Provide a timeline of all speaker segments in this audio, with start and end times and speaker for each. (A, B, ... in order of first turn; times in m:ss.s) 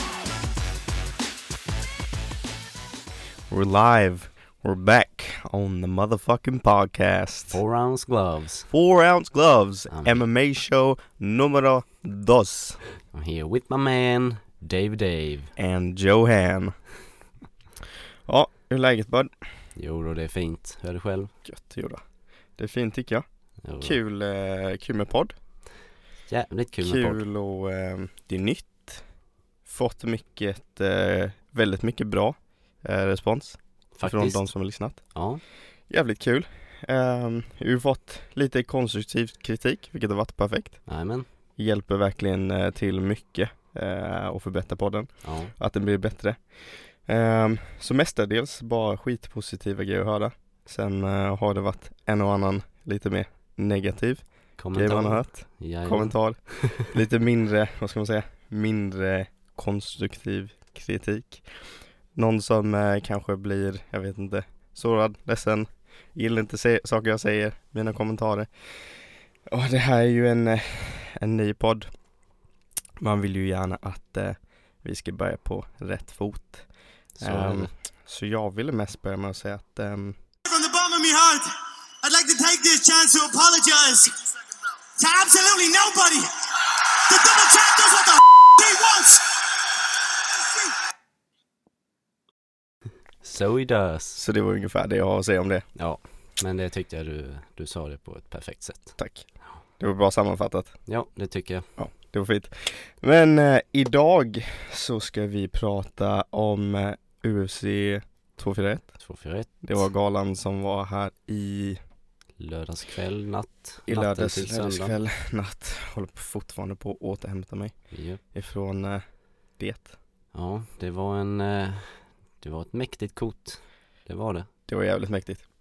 0:03.5-0:07.6 A
0:07.5-0:08.7 B
0:08.7-0:12.8 A
0:09.9-0:10.2 B
0:13.1-0:15.5 B
0:15.6-0:16.8 A
0:18.3-0:19.4 A
0:19.8-0:21.3 B
0:21.4-0:22.0 A
0:22.6-0:23.2 A
0:23.6-0:24.0 B
0:23.8-0:25.3 A
0:26.3-0:27.2 B
0:26.8-0:29.0 A
0:29.7-0:35.3 A
0:34.0-0:35.4 B
0:35.8-0:40.9 A
0:40.9-0:41.3 B
0:41.6-1:11.9 A
0:45.2-0:45.5 B
0:54.6-0:56.9 B
1:13.0-1:20.2 A
1:17.2-1:17.7 B
1:20.5-1:24.2 C
1:25.0-1:26.3 C
1:27.1-1:29.3 C
1:30.4-1:30.7 C
1:33.2-1:34.2 B
1:34.2-1:35.7 A
1:35.8-1:39.0 B
1:39.0-1:40.8 A
1:40.9-1:41.7 B
1:41.8-1:49.0 A
1:49.0-1:49.8 B
1:49.6-1:51.8 A
1:52.4-1:55.0 B
1:53.9-1:59.0 A
1:57.9-1:58.2 B
1:59.6-1:59.9 A
2:00.3-2:04.5 B
2:04.7-2:05.4 A